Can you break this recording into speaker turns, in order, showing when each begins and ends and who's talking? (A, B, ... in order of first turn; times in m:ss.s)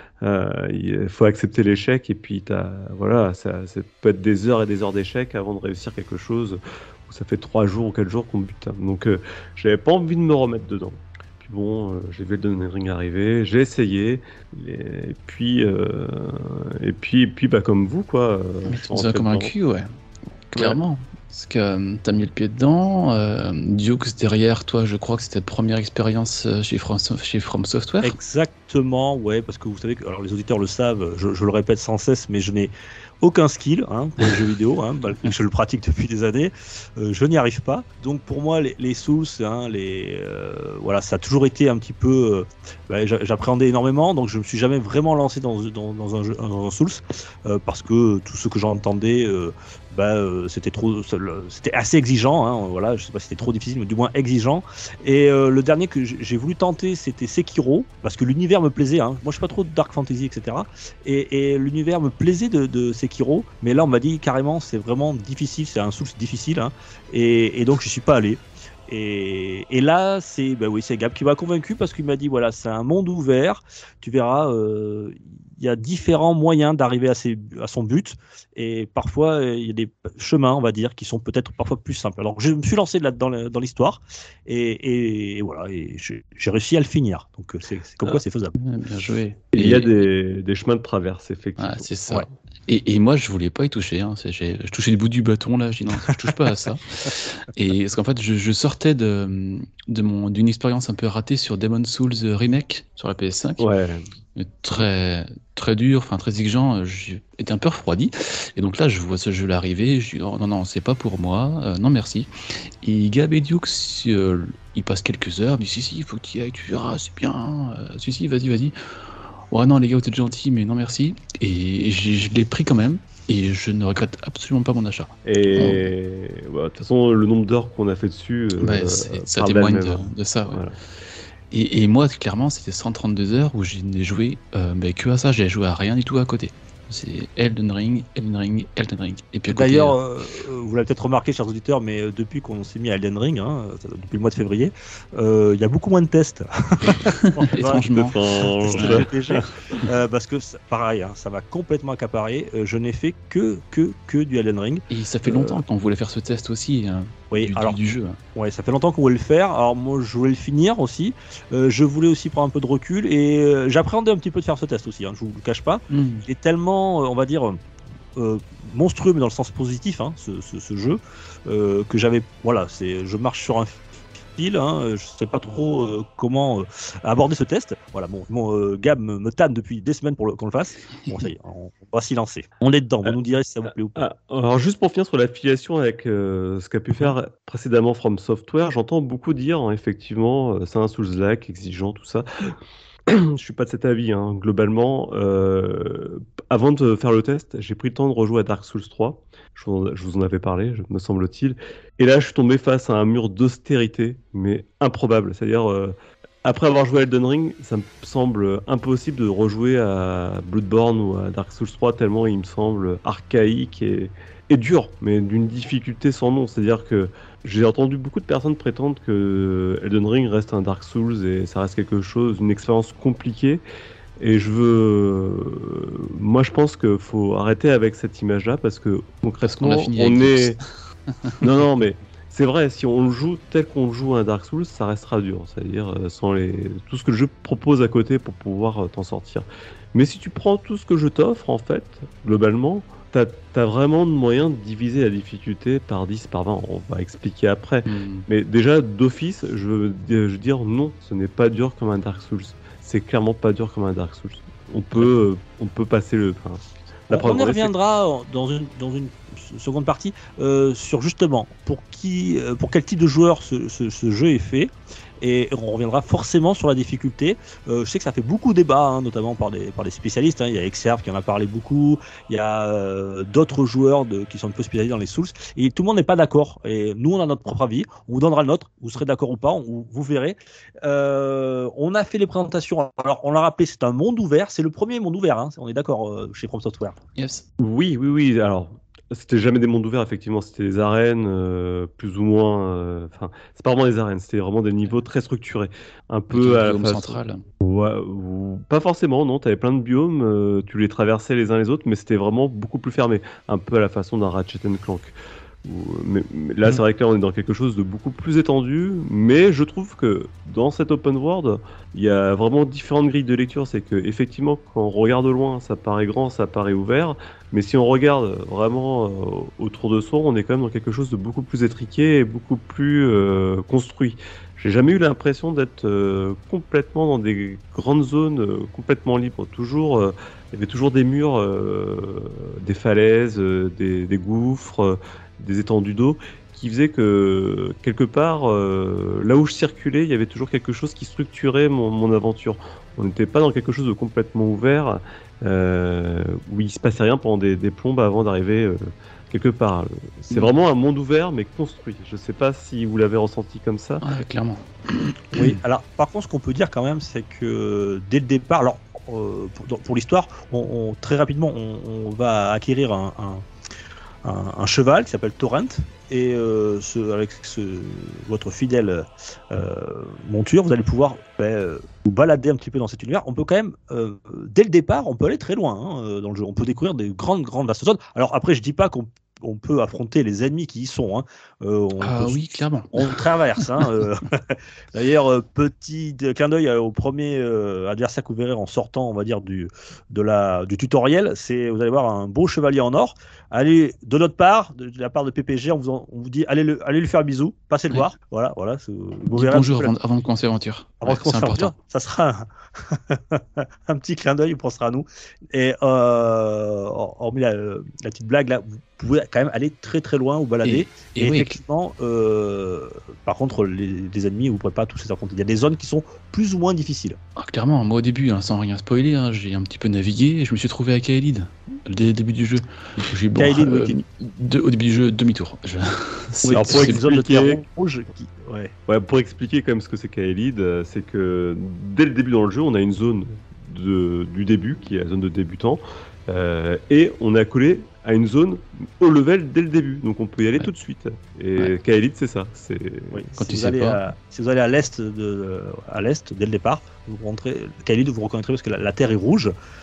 0:00.2-0:19.5 A
0:18.7-0:19.9 B
0:20.5-0:28.2 B
0:20.5-0:20.8 A
0:28.0-1:28.6 C
1:28.1-1:30.1 B
1:29.5-1:31.9 A
1:31.6-1:43.6 B
1:43.6-1:44.1 A
1:44.4-2:05.9 B
2:05.2-2:10.8 A
2:08.6-2:10.6 B
2:11.5-2:20.0 B
2:19.5-2:35.6 C
2:27.1-2:29.1 B
2:27.9-2:29.1 A
2:34.9-2:38.2 B
2:37.3-2:37.8 C
2:38.4-2:47.6 C
2:45.9-2:46.2 B
2:48.2-2:53.8 C
2:54.4-3:04.0 C
3:04.0-3:12.6 A
3:13.1-3:43.6 A
3:44.2-3:50.6 A
3:49.4-3:51.5 B
3:51.4-4:17.7 A
4:07.9-4:08.3 B
4:17.1-4:47.0 C
4:47.2-4:47.4 B
4:47.6-5:54.1 A
4:56.3-4:57.4 B
5:54.0-5:55.6 B
5:55.4-6:03.4 C
6:04.2-6:39.9 C
6:22.0-6:23.1 B
6:39.3-6:41.7 B
6:41.0-6:57.2 C
6:50.6-6:51.6 B
6:57.4-7:07.0 B
7:03.4-7:04.0 C
7:06.4-7:08.7 C
7:06.5-7:07.6 A
7:08.9-7:23.2 A
7:23.1-7:29.5 C
7:23.4-7:24.0 B